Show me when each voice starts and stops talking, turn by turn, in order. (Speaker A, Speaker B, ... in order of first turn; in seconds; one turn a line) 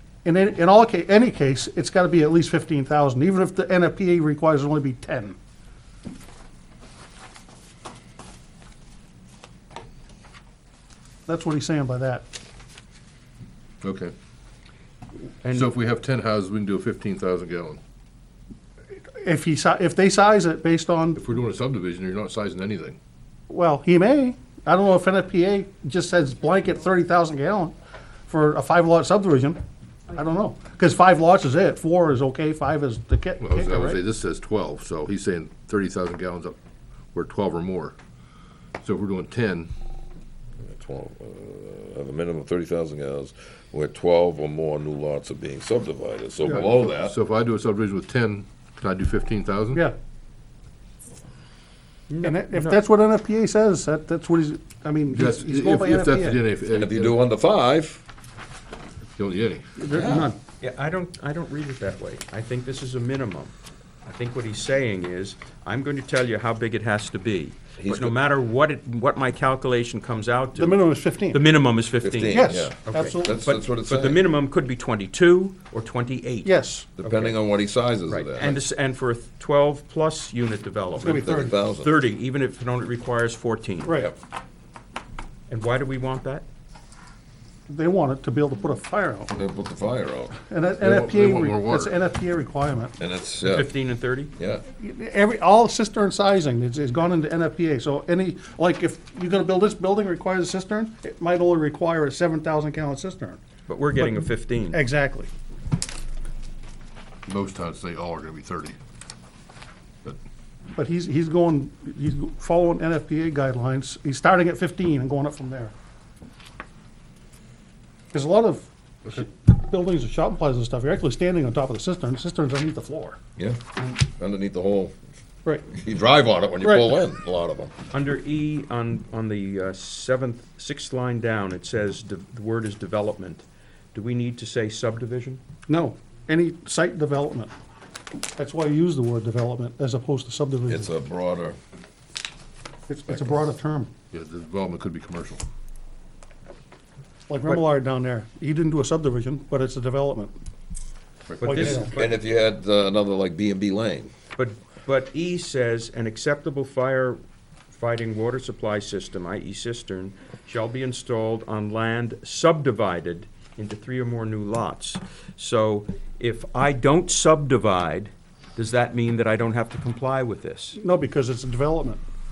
Speaker A: 0.2-5.4
Speaker A: 11.3-12.2
Speaker B: 13.8-14.1
Speaker C: 15.4-15.7
Speaker B: 15.5-17.8
Speaker A: 19.1-21.2
Speaker B: 21.2-23.0
Speaker A: 23.5-27.7
Speaker A: 28.3-29.6
Speaker A: 30.1-34.0
Speaker B: 33.4-36.6
Speaker B: 37.1-38.0
Speaker B: 38.8-39.7
Speaker D: 40.6-47.1
Speaker B: 46.4-49.8
Speaker C: 52.1-52.8
Speaker A: 52.2-56.4
Speaker B: 55.1-57.2
Speaker D: 56.7-58.0
Speaker B: 59.2-59.8
Speaker A: 59.8-60.4
Speaker D: 59.9-60.3
Speaker C: 60.6-63.5
Speaker C: 64.0-77.4
Speaker D: 67.8-68.2
Speaker A: 70.6-71.4
Speaker D: 72.0-74.2
Speaker A: 72.3-73.6
Speaker A: 76.5-76.9
Speaker D: 77.0-78.6
Speaker C: 78.1-84.0
Speaker A: 81.0-81.6
Speaker D: 81.0-82.0
Speaker A: 83.8-84.1
Speaker C: 85.5-86.5
Speaker A: 87.7-89.3
Speaker D: 89.3-90.4
Speaker A: 90.5-93.0
Speaker B: 90.8-92.0
Speaker D: 93.0-93.8
Speaker C: 93.4-94.3
Speaker D: 94.4-94.6
Speaker A: 94.7-103.4
Speaker C: 103.7-104.8
Speaker A: 104.0-105.3
Speaker B: 107.3-108.8
Speaker A: 110.8-115.7
Speaker A: 118.1-123.2
Speaker D: 123.4-124.9
Speaker D: 125.7-127.7
Speaker A: 126.6-126.9
Speaker C: 127.9-135.4
Speaker A: 135.7-137.5
Speaker A: 138.4-140.9
Speaker D: 140.7-141.6
Speaker A: 142.9-143.9
Speaker B: 144.1-145.4
Speaker A: 147.3-150.3
Speaker B: 151.3-151.7
Speaker C: 151.4-152.1
Speaker A: 151.4-152.0
Speaker D: 151.5-154.1
Speaker C: 154.4-170.8
Speaker A: 170.8-172.0